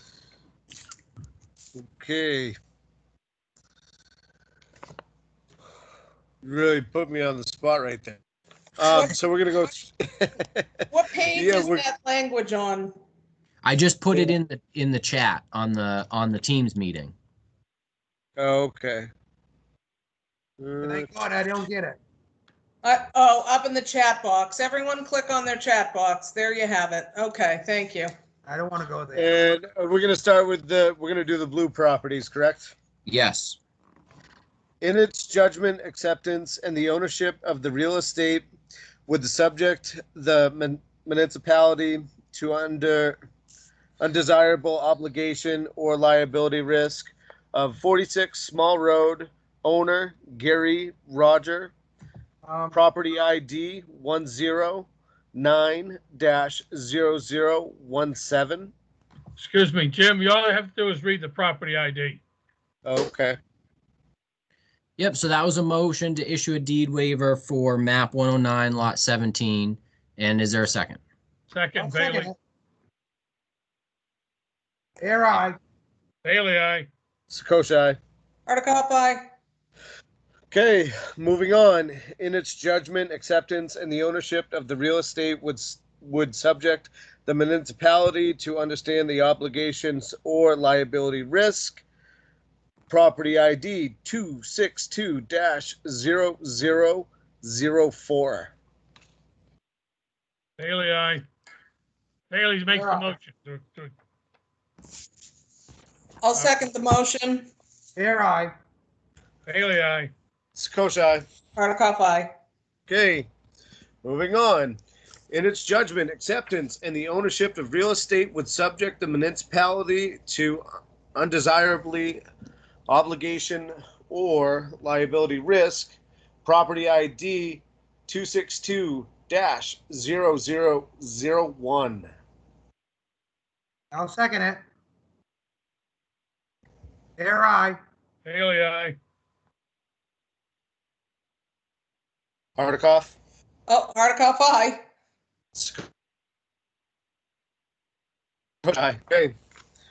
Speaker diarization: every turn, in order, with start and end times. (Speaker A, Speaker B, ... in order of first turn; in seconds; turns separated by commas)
Speaker A: 1.8-2.6, Speaker A: 6.4-8.2, Speaker A: 8.8-10.7, Speaker B: 10.9-13.0, Speaker A: 11.3-11.8, Speaker C: 13.6-17.1, Speaker A: 18.4-19.1, Speaker A: 20.6-21.1, Speaker D: 20.8-22.0, Speaker B: 22.8-28.1, Speaker D: 28.5-29.4, Speaker A: 29.1-32.7, Speaker C: 33.1-33.6, Speaker A: 34.8-38.5, Speaker A: 39.1-43.2, Speaker A: 44.0-51.7, Speaker D: 52.5-52.8, Speaker A: 52.7-58.7, Speaker E: 59.4-62.2, Speaker A: 62.9-63.4, Speaker C: 65.0-71.0, Speaker E: 71.5-72.3, Speaker D: 71.8-72.3, Speaker D: 75.0-75.6, Speaker E: 76.2-76.9, Speaker A: 77.3-78.0, Speaker B: 78.5-79.2, Speaker A: 80.5-91.8, Speaker A: 92.9-98.5, Speaker E: 100.6-101.2, Speaker E: 102.3-103.9, Speaker D: 102.7-103.1, Speaker B: 106.2-107.5, Speaker D: 108.0-108.5, Speaker E: 109.5-110.1, Speaker A: 110.6-111.2, Speaker B: 111.6-112.3, Speaker A: 112.9-113.3, Speaker A: 114.0-114.8, Speaker A: 115.3-122.2, Speaker A: 122.9-132.1, Speaker D: 133.9-134.6, Speaker D: 137.2-137.8, Speaker E: 138.2-139.0, Speaker A: 142.6-143.2, Speaker B: 143.7-144.8, Speaker A: 145.6-145.8, Speaker A: 148.7-149.3